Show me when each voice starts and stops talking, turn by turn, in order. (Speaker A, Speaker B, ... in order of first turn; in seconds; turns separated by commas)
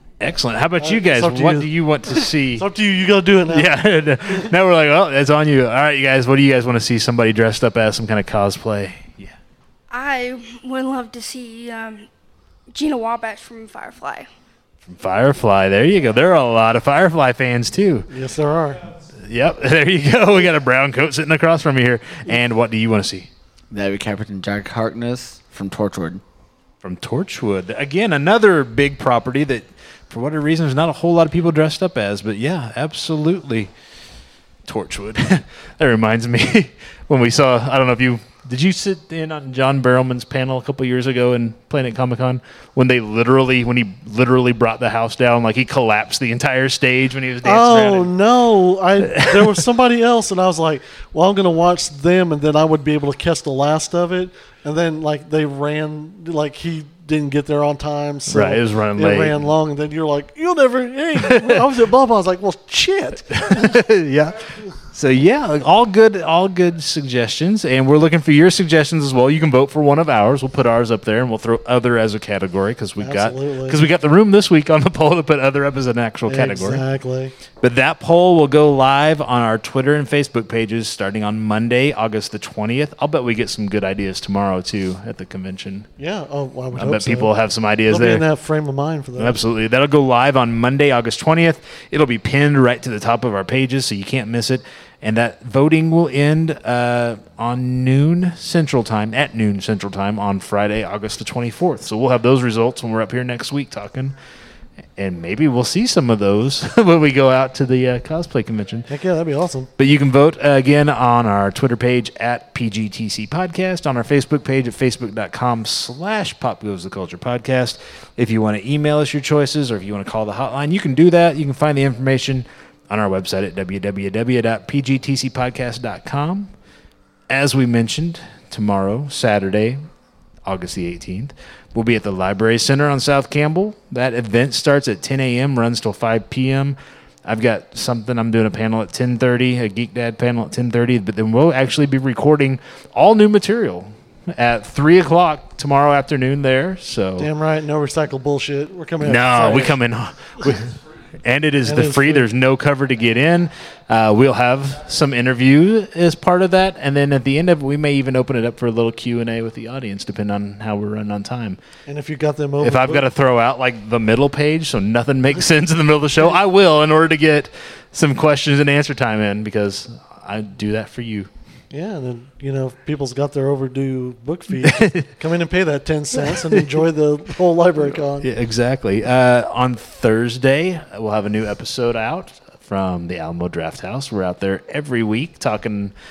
Speaker A: 0.2-2.6, Speaker B: 0.8-3.7, Speaker A: 3.5-9.3, Speaker C: 9.9-12.1, Speaker C: 12.7-14.3, Speaker A: 14.8-18.1, Speaker B: 18.1-18.8, Speaker A: 19.2-23.3, Speaker D: 23.7-26.2, Speaker A: 26.8-33.7, Speaker A: 34.6-48.1, Speaker B: 47.4-63.8, Speaker A: 49.0-49.6, Speaker A: 58.3-59.4, Speaker A: 61.1-61.7, Speaker A: 63.3-76.8, Speaker B: 73.0-73.8, Speaker B: 76.2-77.3, Speaker A: 77.6-85.9, Speaker B: 86.0-87.3, Speaker A: 86.7-88.2, Speaker B: 87.9-89.4, Speaker A: 89.2-104.1, Speaker A: 105.0-108.9, Speaker B: 108.9-109.7, Speaker A: 109.8-126.5, Speaker A: 127.3-129.8, Speaker A: 130.4-147.3, Speaker B: 147.2-149.8, Speaker A: 149.0-161.6, Speaker B: 151.6-152.2, Speaker B: 161.9-163.1, Speaker A: 162.6-171.3, Speaker B: 171.7-178.3, Speaker A: 174.6-175.1, Speaker A: 176.2-176.8, Speaker A: 178.2-185.9